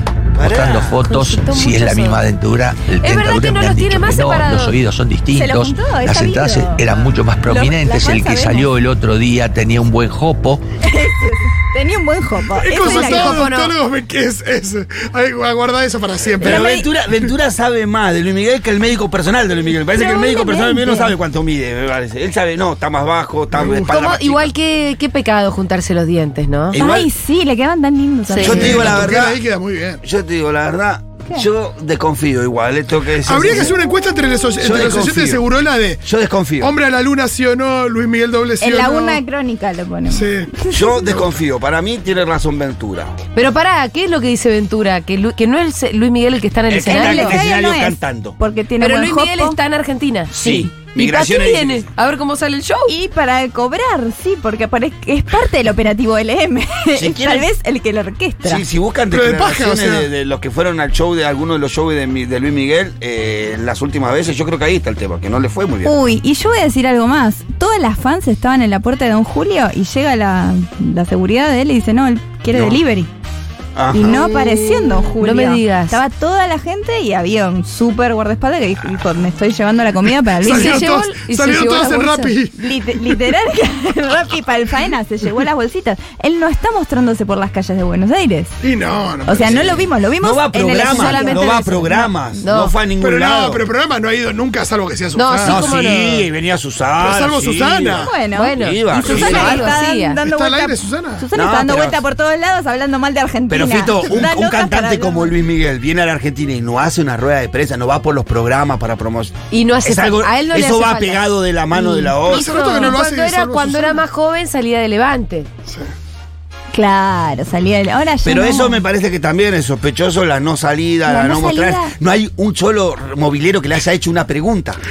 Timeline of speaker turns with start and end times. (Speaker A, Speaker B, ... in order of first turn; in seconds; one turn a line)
Speaker A: 0.4-1.0
Speaker B: 0.4-10.6
Speaker C: 1.0-2.2
Speaker C: 3.0-4.8
Speaker D: 5.3-8.7
Speaker D: 10.8-13.4
Speaker E: 12.4-17.3
Speaker C: 12.8-13.7
Speaker A: 16.4-24.5
Speaker D: 16.5-16.8
Speaker D: 19.9-21.1
Speaker E: 23.5-23.9
Speaker C: 23.9-26.8
Speaker A: 26.7-27.1
Speaker D: 26.7-29.0
Speaker C: 28.3-28.7
Speaker E: 28.4-30.0
Speaker A: 28.4-29.4
Speaker A: 30.0-33.7
Speaker E: 33.2-36.1
Speaker A: 34.6-35.4
Speaker A: 36.0-36.7
Speaker E: 36.6-39.2
Speaker D: 38.6-41.2
Speaker E: 40.1-40.5
Speaker A: 40.7-43.1
Speaker C: 43.3-47.4
Speaker A: 46.7-48.4
Speaker D: 46.8-49.6
Speaker C: 48.8-50.3
Speaker D: 50.3-50.7
Speaker A: 50.3-51.8
Speaker C: 50.9-52.9
Speaker D: 52.9-58.6
Speaker A: 57.0-57.5
Speaker A: 58.4-66.0
Speaker E: 59.1-60.1
Speaker D: 65.8-73.1
Speaker A: 72.5-72.8
Speaker A: 73.8-74.2
Speaker D: 73.9-80.9
Speaker C: 74.1-76.0
Speaker E: 80.3-83.2
Speaker C: 80.4-82.3
Speaker D: 82.5-88.5
Speaker E: 88.6-89.7
Speaker D: 89.2-92.2
Speaker A: 89.4-93.6
Speaker C: 90.7-91.9
Speaker C: 92.4-92.8
Speaker E: 93.0-95.7
Speaker C: 95.1-96.3
Speaker A: 95.4-99.6
Speaker E: 97.0-98.1
Speaker D: 98.0-105.3
Speaker C: 98.3-100.2
Speaker E: 98.9-101.2
Speaker A: 101.3-102.0
Speaker A: 103.5-112.5
Speaker E: 104.0-104.3
Speaker C: 109.5-115.5
Speaker E: 112.2-114.0
Speaker E: 115.7-115.9
Speaker D: 116.7-118.8
Speaker A: 118.2-124.8
Speaker D: 121.0-121.9